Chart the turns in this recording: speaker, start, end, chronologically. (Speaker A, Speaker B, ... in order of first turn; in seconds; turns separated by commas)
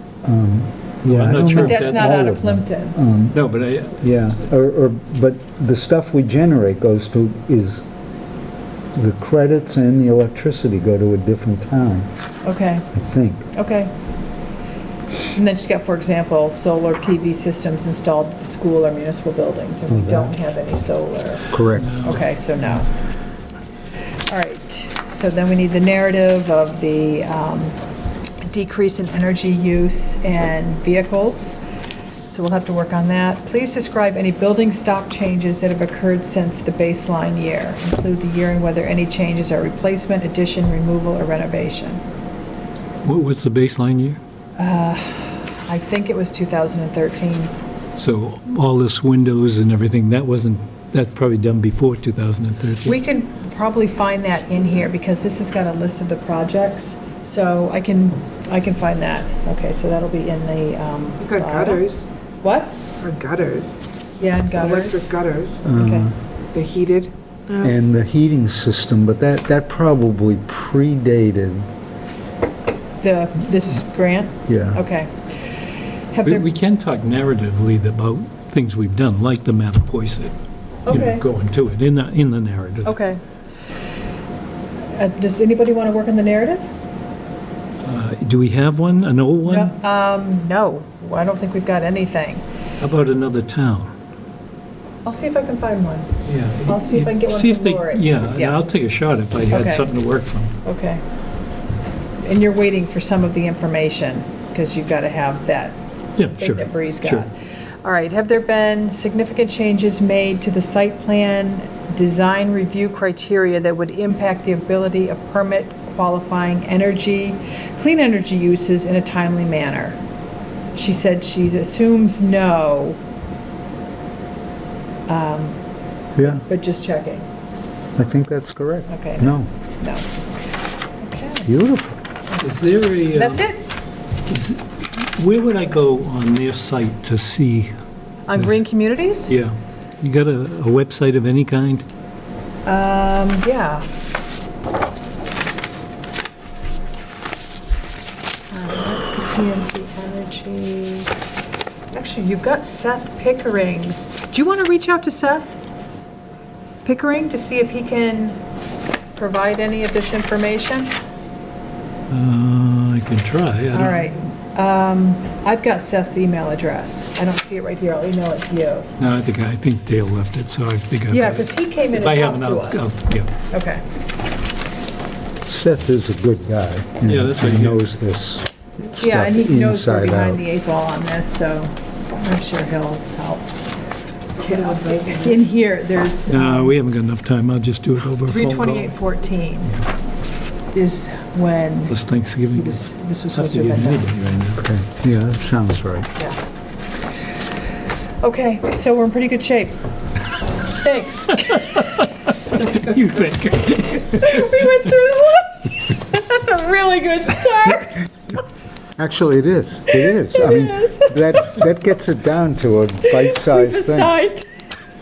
Speaker A: 0.2-3.4, Speaker B: 1.0-2.1, Speaker C: 1.6-3.0, Speaker B: 3.3-4.1, Speaker A: 3.9-7.8, Speaker A: 8.9-12.1, Speaker C: 12.4-12.9, Speaker A: 12.9-13.5, Speaker C: 13.5-13.9, Speaker C: 15.3-22.9, Speaker A: 19.9-20.3, Speaker A: 21.5-22.0, Speaker B: 21.8-22.3, Speaker C: 24.3-27.8, Speaker C: 28.5-31.6, Speaker C: 32.3-42.0, Speaker B: 43.0-44.2, Speaker C: 44.6-47.5, Speaker B: 48.0-53.0, Speaker C: 52.9-61.9, Speaker D: 61.2-62.1, Speaker C: 62.4-62.7, Speaker D: 63.0-63.7, Speaker C: 64.2-66.1, Speaker D: 64.5-65.6, Speaker A: 65.6-66.1, Speaker D: 66.5-67.7, Speaker A: 67.6-71.7, Speaker C: 73.0-75.1, Speaker A: 74.5-74.8, Speaker C: 76.1-76.5, Speaker B: 76.2-80.3, Speaker C: 80.8-81.2, Speaker B: 80.9-83.0, Speaker C: 82.8-83.2, Speaker C: 84.9-86.7, Speaker B: 87.8-89.7, Speaker C: 89.5-92.4, Speaker B: 92.8-93.9, Speaker C: 95.0-96.1, Speaker B: 96.2-100.5, Speaker C: 96.7-98.6, Speaker C: 99.5-99.9, Speaker C: 100.6-101.0, Speaker C: 102.2-105.8, Speaker B: 106.2-107.2, Speaker C: 106.4-107.3, Speaker C: 107.8-120.0, Speaker C: 120.7-123.0, Speaker C: 125.1-125.6, Speaker A: 126.2-126.4, Speaker C: 126.2-127.3, Speaker A: 128.0-129.5, Speaker C: 128.9-130.1, Speaker C: 131.0-131.5, Speaker A: 131.4-132.0, Speaker B: 132.4-133.4, Speaker C: 133.1-133.6, Speaker B: 134.3-137.7, Speaker C: 138.3-139.3, Speaker B: 139.3-141.8, Speaker C: 142.7-143.9, Speaker C: 148.5-151.1, Speaker C: 151.9-155.6, Speaker C: 156.8-158.4, Speaker C: 159.2-161.0, Speaker B: 162.1-164.2, Speaker C: 163.7-168.9, Speaker B: 169.0-173.3, Speaker C: 171.1-173.8, Speaker A: 175.4-180.4, Speaker B: 177.0-177.8, Speaker C: 179.0-183.5, Speaker C: 184.4-186.8, Speaker B: 186.2-188.9, Speaker C: 188.3-189.7, Speaker C: 190.7-191.9, Speaker B: 191.9-194.6, Speaker C: 192.6-194.1, Speaker A: 194.6-196.1, Speaker C: 198.2-199.8, Speaker C: 200.7-202.9, Speaker B: 201.5-204.7, Speaker C: 204.1-208.1, Speaker A: 209.0-214.1, Speaker C: 209.9-211.5, Speaker C: 213.1-214.4